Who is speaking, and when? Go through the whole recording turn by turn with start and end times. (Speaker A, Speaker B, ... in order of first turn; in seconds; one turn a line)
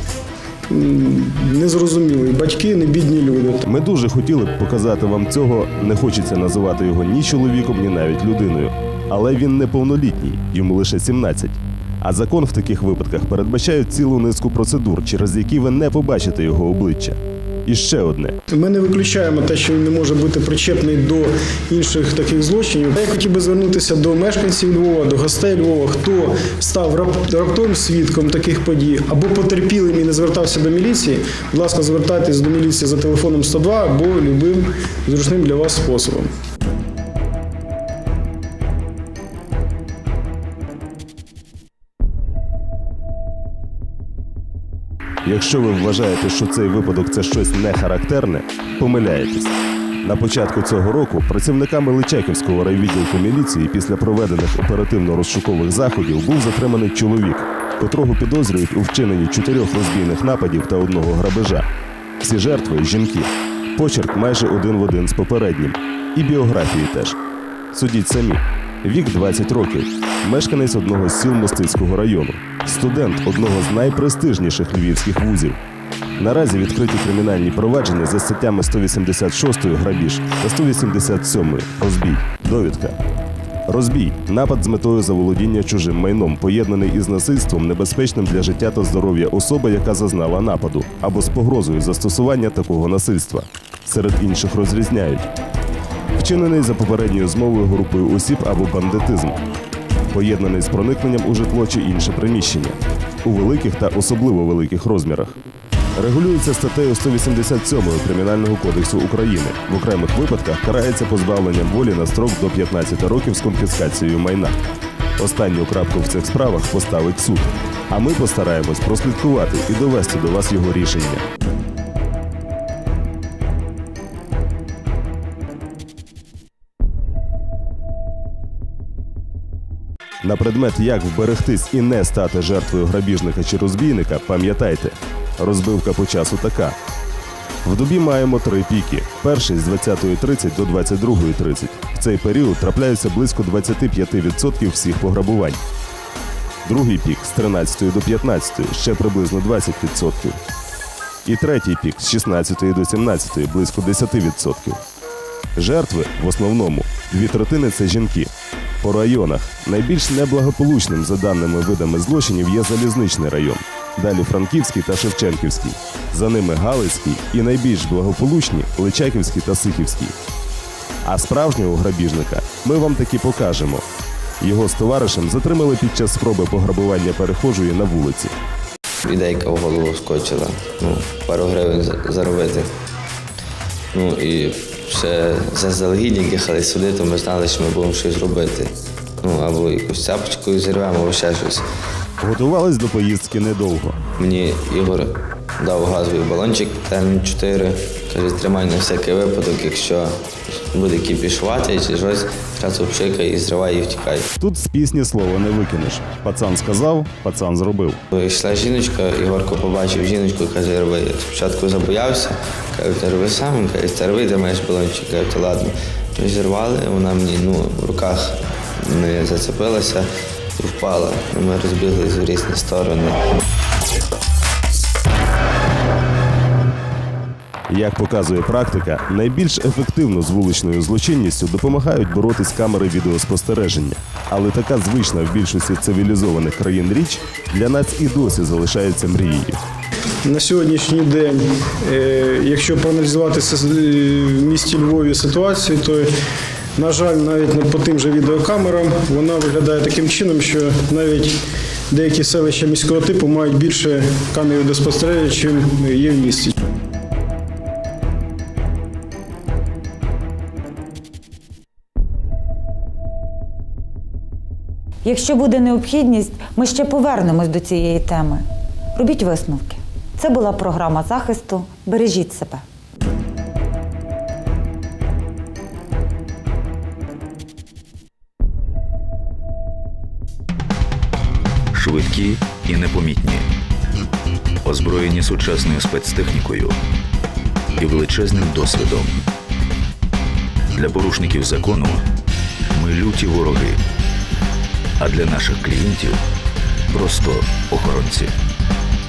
Speaker A: 0.7-3.7
Speaker B: 3.7-18.4
Speaker A: 18.5-36.3
Speaker B: 45.2-61.7
Speaker B: 62.2-67.2
Speaker B: 67.7-75.6
Speaker B: 76.2-83.0
Speaker B: 83.7-95.3
Speaker B: 96.2-99.4
Speaker B: 100.1-105.4
Speaker B: 106.0-114.6
Speaker B: 115.2-121.2
Speaker B: 130.2-136.8
Speaker B: 137.6-145.6
Speaker B: 146.7-150.4
Speaker B: 151.2-154.8
Speaker B: 155.6-158.3
Speaker B: 158.8-170.1
Speaker B: 171.0-173.8
Speaker B: 174.4-178.3
Speaker C: 179.0-182.7
Speaker C: 183.9-191.7
Speaker B: 192.2-194.0
Speaker C: 194.2-204.3
Speaker B: 204.4-208.0
Speaker C: 208.1-223.2
Speaker B: 227.7-239.6
Speaker A: 240.2-246.1
Speaker A: 246.8-256.6
Speaker D: 265.0-272.6
Speaker E: 281.7-283.5
Speaker E: 284.6-286.8
Speaker E: 287.8-289.2
Speaker E: 290.8-292.1
Speaker E: 292.7-293.8
Speaker E: 295.0-296.2
Speaker E: 296.9-298.3